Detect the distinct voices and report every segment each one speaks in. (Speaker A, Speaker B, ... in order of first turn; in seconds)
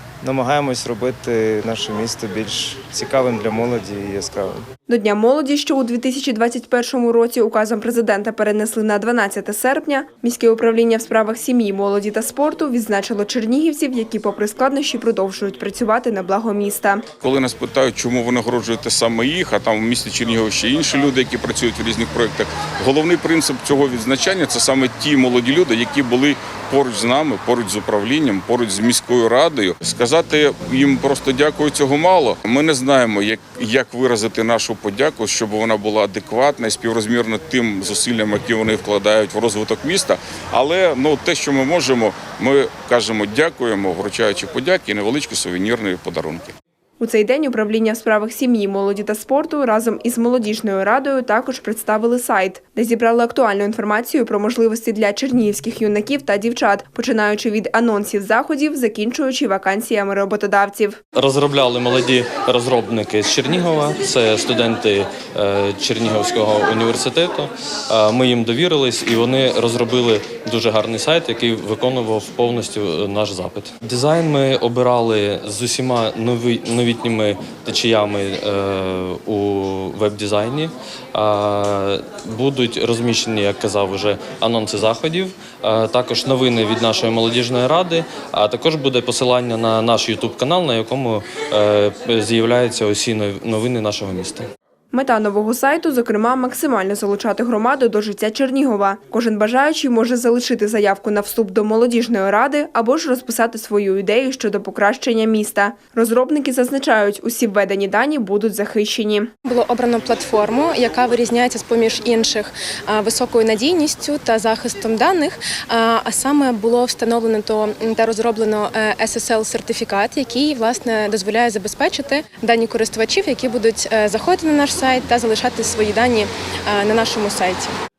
Speaker A: 0.2-4.7
Speaker B: 4.9-17.1, 47.0-61.0, 94.9-109.3
Speaker C: 17.2-46.5
Speaker D: 61.1-94.5
Speaker E: 109.5-127.7